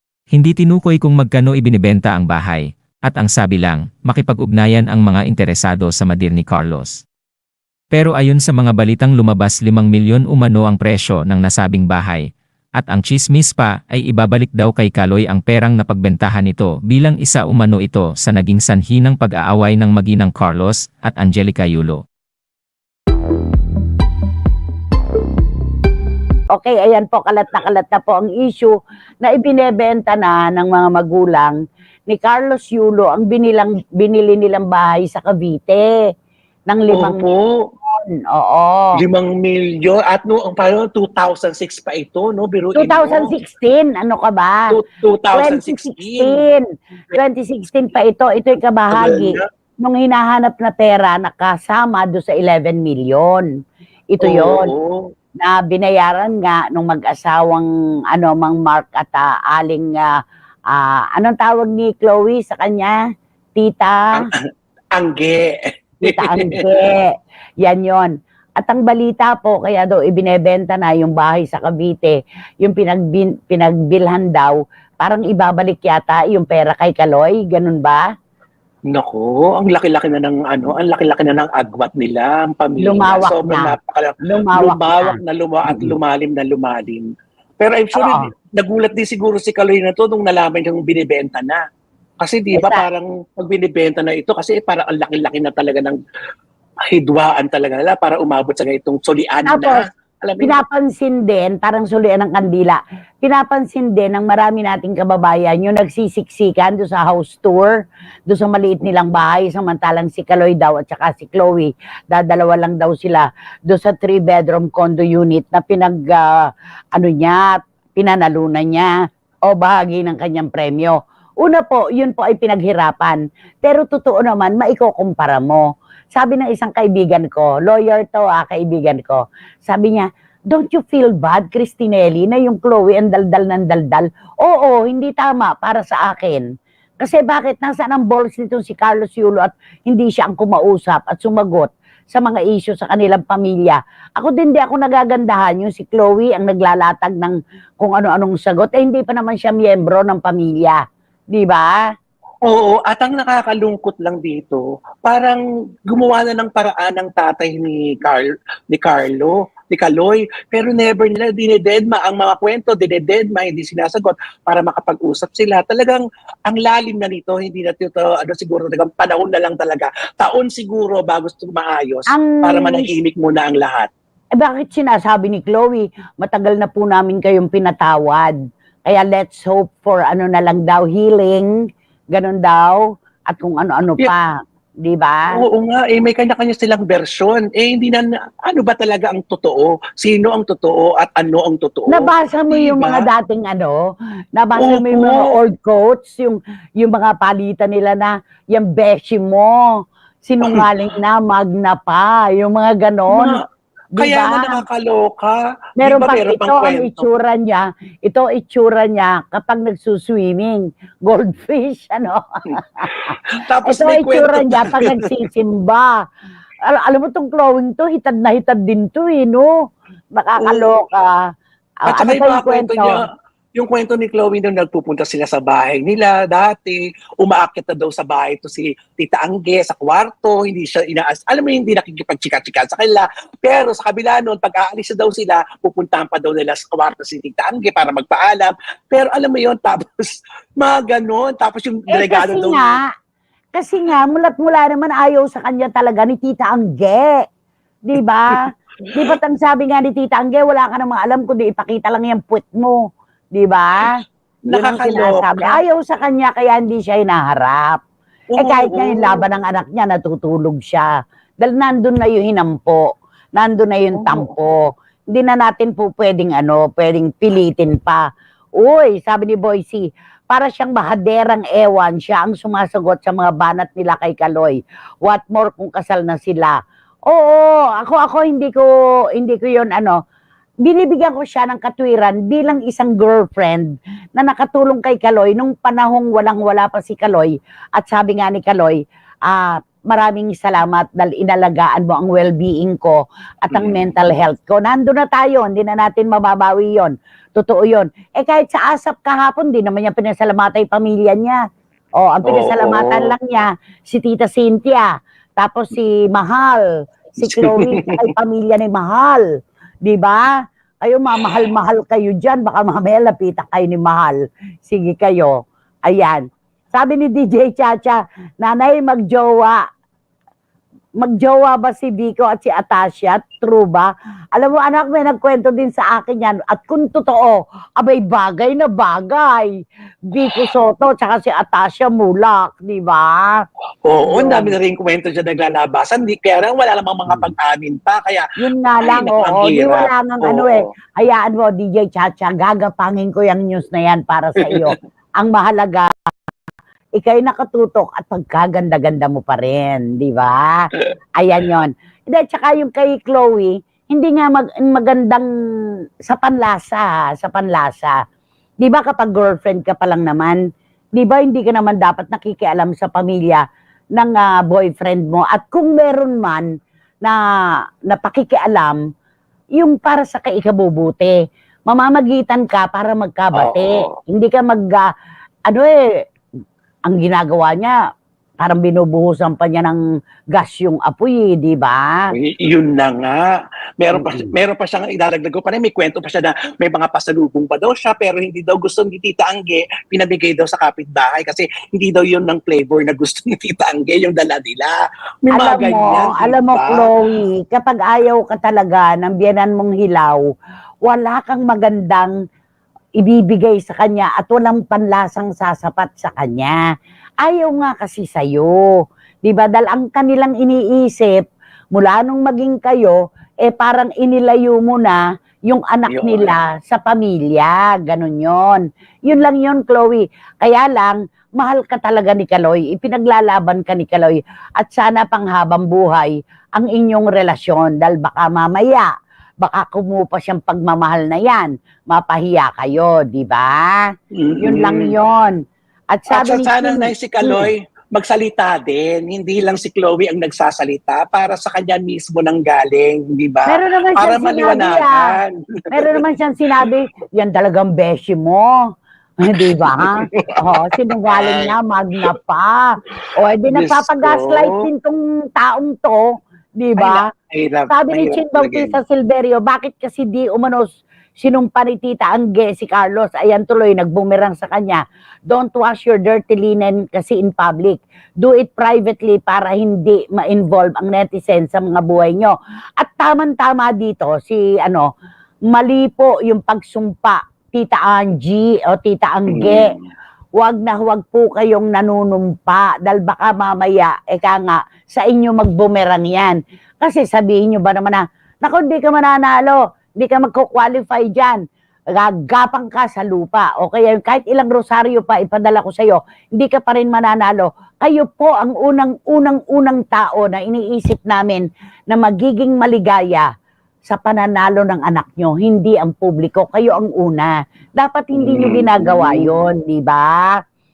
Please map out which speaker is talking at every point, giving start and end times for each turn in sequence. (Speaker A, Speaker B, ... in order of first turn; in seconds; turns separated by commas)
Speaker A: 0.3-7.0, Speaker A: 7.9-22.0, Speaker B: 26.5-31.6, Speaker B: 32.1-35.9, Speaker B: 36.7-37.2, Speaker C: 36.9-37.5, Speaker B: 37.9-39.0, Speaker C: 39.0-43.3, Speaker B: 42.8-44.7, Speaker C: 44.7-46.4, Speaker B: 45.3-53.5, Speaker C: 48.9-49.5, Speaker B: 54.1-54.7, Speaker C: 54.2-55.0, Speaker B: 55.4-60.2, Speaker B: 60.7-63.0, Speaker B: 63.6-64.2, Speaker C: 64.2-64.4, Speaker C: 65.0-66.6, Speaker B: 66.1-78.0, Speaker C: 78.9-87.1, Speaker B: 82.8-85.9, Speaker C: 87.6-91.6, Speaker B: 88.0-88.3, Speaker C: 92.2-96.0, Speaker B: 92.5-92.9, Speaker C: 96.9-100.6, Speaker B: 99.5-99.8, Speaker B: 100.4-107.8, Speaker B: 108.3-118.9, Speaker B: 119.5-125.6, Speaker B: 126.2-136.5, Speaker B: 137.0-150.8, Speaker B: 151.3-151.8, Speaker C: 152.5-173.9, Speaker B: 172.1-172.9, Speaker B: 174.4-181.5, Speaker B: 182.1-184.3, Speaker B: 184.8-185.4, Speaker C: 185.3-193.1, Speaker B: 191.9-193.8, Speaker B: 194.3-199.6, Speaker C: 194.6-195.3, Speaker B: 200.2-203.4, Speaker C: 203.1-203.4, Speaker B: 203.9-204.6, Speaker C: 204.0-207.1, Speaker B: 205.8-213.1, Speaker C: 213.3-215.1, Speaker B: 213.7-215.9, Speaker B: 216.7-219.5, Speaker B: 220.2-221.2, Speaker C: 220.4-220.7, Speaker B: 221.8-222.9, Speaker C: 221.9-223.1, Speaker C: 223.6-242.8, Speaker B: 241.9-242.8, Speaker B: 243.5-247.2, Speaker B: 247.8-252.8, Speaker C: 248.9-249.1, Speaker B: 253.3-257.8, Speaker C: 254.4-255.6, Speaker C: 258.3-259.2, Speaker B: 258.4-260.9, Speaker B: 261.4-268.0, Speaker C: 263.9-264.3, Speaker B: 268.6-276.6, Speaker B: 277.1-280.0, Speaker B: 280.6-301.4, Speaker C: 293.5-293.8, Speaker B: 302.0-306.7, Speaker C: 302.2-303.1, Speaker B: 307.2-309.2, Speaker C: 307.2-308.1, Speaker B: 309.9-310.3, Speaker B: 310.8-315.4, Speaker B: 315.9-319.6, Speaker B: 321.0-329.5, Speaker B: 330.1-333.4, Speaker C: 333.9-338.2, Speaker B: 334.1-334.5, Speaker B: 338.4-345.9, Speaker C: 338.8-340.7, Speaker C: 344.5-344.8, Speaker B: 347.0-355.3, Speaker B: 356.1-358.0, Speaker B: 358.6-360.4, Speaker B: 361.0-363.4, Speaker B: 364.0-366.5, Speaker B: 367.9-368.8, Speaker B: 369.6-371.1, Speaker B: 371.7-374.9, Speaker C: 373.3-373.9, Speaker B: 375.5-375.8, Speaker B: 376.9-377.8, Speaker B: 378.4-379.8, Speaker B: 380.3-382.1, Speaker C: 382.1-383.2, Speaker C: 383.8-394.7, Speaker B: 384.0-384.3, Speaker C: 395.2-396.9, Speaker B: 395.3-400.2, Speaker B: 400.8-402.1, Speaker B: 403.0-406.6, Speaker B: 407.2-408.6, Speaker B: 409.2-411.2, Speaker B: 411.7-428.9, Speaker C: 415.9-416.3, Speaker B: 429.4-433.9, Speaker C: 434.1-434.9, Speaker B: 434.4-435.4, Speaker B: 435.9-437.5, Speaker C: 436.1-446.0, Speaker B: 443.5-444.9, Speaker B: 445.7-448.5, Speaker B: 449.2-452.6, Speaker C: 449.4-451.5, Speaker B: 453.2-456.0, Speaker C: 453.5-454.6, Speaker B: 456.6-457.1, Speaker C: 456.8-458.8, Speaker B: 457.7-474.9, Speaker B: 475.5-479.7, Speaker C: 479.3-479.8, Speaker B: 480.4-491.4, Speaker B: 491.9-503.3, Speaker B: 503.9-510.4, Speaker C: 508.2-509.3